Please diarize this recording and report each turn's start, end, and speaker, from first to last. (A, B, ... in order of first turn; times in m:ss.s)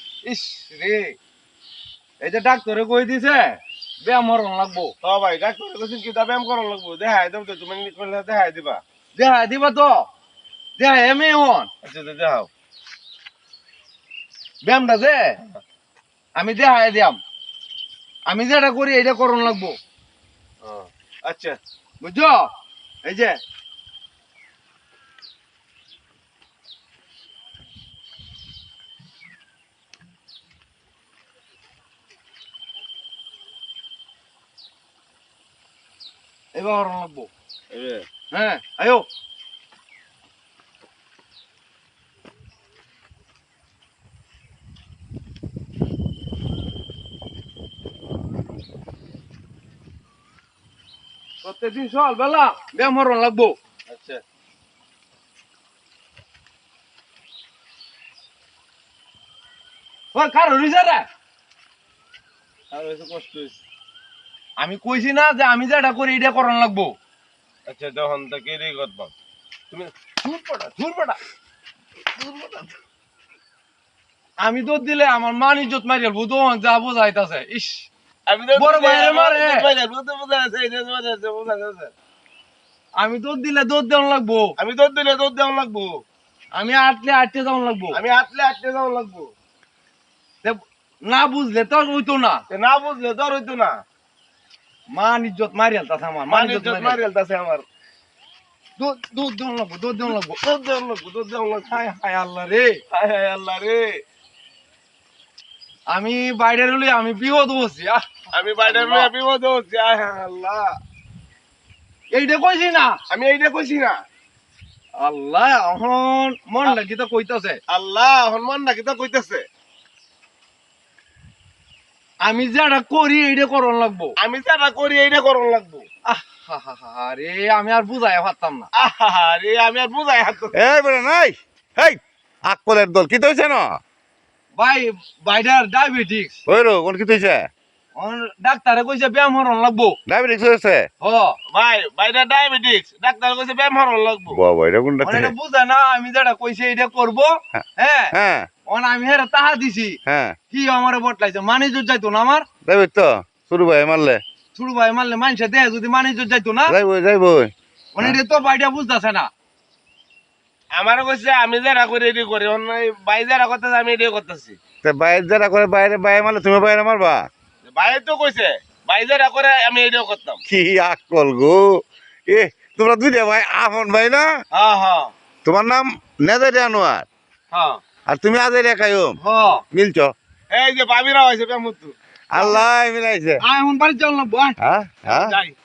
0:00.2-0:01.2 A
0:02.2-0:04.9 A
0:05.0-0:08.8 B
0:09.2-0:10.1 A
0:10.8-0:11.7 A
0:11.8-0:12.5 B
0:14.6-0:15.4 A
0:16.4-0:17.2 A
0:18.3-0:19.8 A
0:20.6-0:21.6 B
0:22.0-0:22.5 A
0:23.0-0:23.4 A
0:36.5-0:37.3 A
0:37.7-0:38.0 B
0:38.3-0:39.1 A
0:51.4-0:53.6 A
0:53.9-0:54.2 B
1:00.1-1:01.1 A
1:02.7-1:03.6 B
1:04.6-1:07.0 A
1:07.7-1:09.1 B
1:10.2-1:11.2 A
1:12.2-1:12.7 B
1:14.4-1:17.9 A
1:18.3-1:21.9 B
1:18.6-1:19.7 A
1:23.0-1:24.5 A
1:24.6-1:26.0 B
1:26.5-1:28.0 A
1:27.9-1:29.3 B
1:30.4-1:32.4 A
1:32.5-1:33.8 B
1:34.9-1:37.0 A
1:36.3-1:37.6 B
1:38.8-1:40.4 A
1:40.1-1:41.8 B
1:41.7-1:42.8 A
1:42.9-1:44.0 B
1:45.9-1:48.0 A
1:48.3-1:50.8 B
1:48.7-1:49.1 A
1:52.1-1:53.0 A
1:53.1-1:54.0 B
1:55.0-1:57.6 A
1:57.7-1:59.4 B
2:02.2-2:04.1 A
2:04.2-2:05.9 B
2:06.1-2:08.7 A
2:08.7-2:10.6 B
2:10.5-2:13.8 C
2:14.6-2:16.4 A
2:16.5-2:17.5 C
2:18.0-2:20.0 A
2:20.1-2:20.9 C
2:21.0-2:21.4 A
2:21.5-2:24.4 B
2:24.3-2:25.3 C
2:25.0-2:28.1 A
2:27.6-2:28.5 C
2:28.7-2:30.0 A
2:30.1-2:30.4 C
2:30.5-2:32.5 A
2:32.6-2:34.2 C
2:34.6-2:36.8 A
2:36.7-2:38.2 C
2:37.9-2:39.3 A
2:40.7-2:44.6 B
2:44.8-2:47.3 C
2:47.6-2:50.4 B
2:50.5-2:54.3 C
2:54.5-2:55.1 B
2:55.4-2:57.1 C
2:57.5-2:57.8 B
2:58.1-2:59.2 C
2:59.2-2:59.6 A
2:59.7-3:00.1 C
3:00.5-3:02.6 B
3:02.3-3:03.4 C
3:03.4-3:04.6 A
3:04.6-3:05.4 C
3:05.1-3:05.6 B